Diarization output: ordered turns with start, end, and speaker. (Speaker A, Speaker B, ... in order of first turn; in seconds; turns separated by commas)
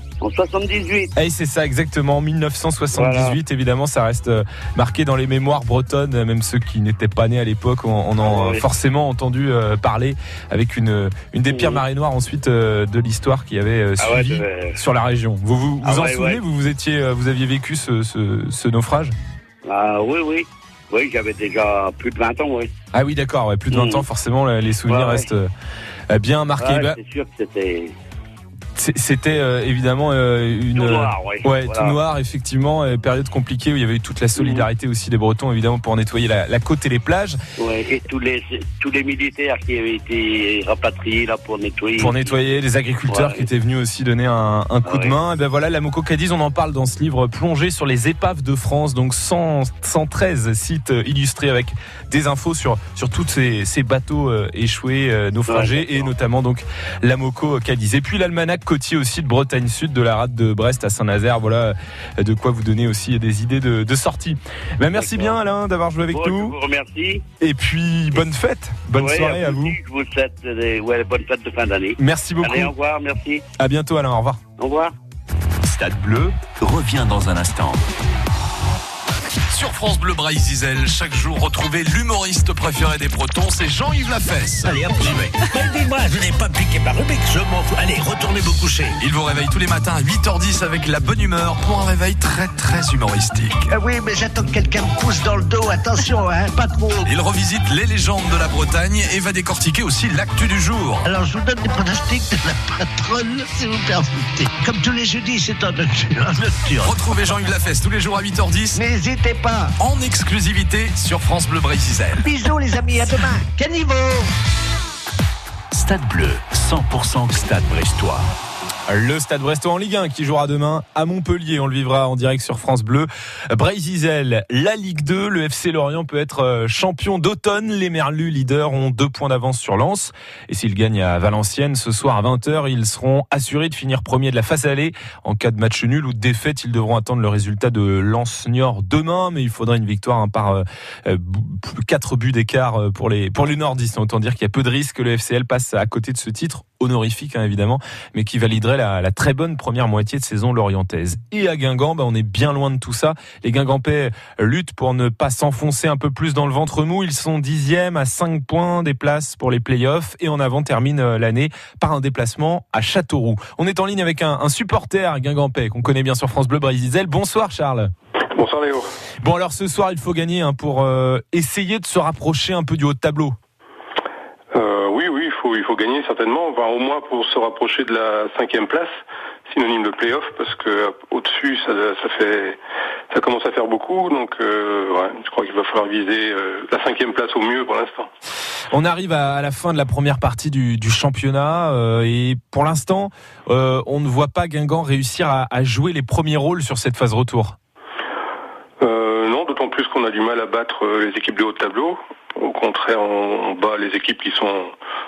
Speaker A: 0.2-1.1, Speaker B: 1.1-19.1, Speaker A: 2.9-3.4, Speaker A: 8.2-8.6, Speaker A: 11.5-11.8, Speaker A: 14.0-14.8, Speaker A: 15.8-16.4, Speaker A: 19.6-22.7, Speaker B: 22.9-25.5, Speaker A: 23.7-24.1, Speaker A: 24.9-25.3, Speaker B: 26.1-27.0, Speaker A: 26.6-27.9, Speaker B: 28.8-37.4, Speaker A: 30.7-32.0, Speaker A: 34.4-34.6, Speaker A: 37.6-42.4, Speaker B: 42.0-66.6, Speaker A: 43.1-43.5, Speaker A: 44.8-45.1, Speaker A: 55.5-56.1, Speaker A: 64.9-65.4, Speaker A: 66.1-67.2, Speaker B: 67.4-69.8, Speaker A: 68.9-73.4, Speaker B: 72.0-72.7, Speaker B: 73.6-74.4, Speaker A: 74.6-74.9, Speaker C: 75.6-77.8, Speaker D: 79.5-84.8, Speaker E: 84.7-89.0, Speaker C: 84.8-85.3, Speaker D: 89.0-93.7, Speaker E: 93.7-97.1, Speaker D: 97.0-101.0, Speaker E: 101.0-107.2, Speaker D: 106.8-108.8, Speaker E: 108.7-109.7, Speaker D: 109.8-112.2, Speaker E: 112.2-114.3, Speaker C: 115.7-118.3, Speaker B: 118.9-167.9, Speaker F: 168.3-168.9, Speaker B: 169.2-173.3, Speaker F: 174.5-178.9, Speaker F: 179.5-182.6, Speaker F: 183.1-188.1, Speaker B: 188.7-197.6, Speaker F: 198.8-204.7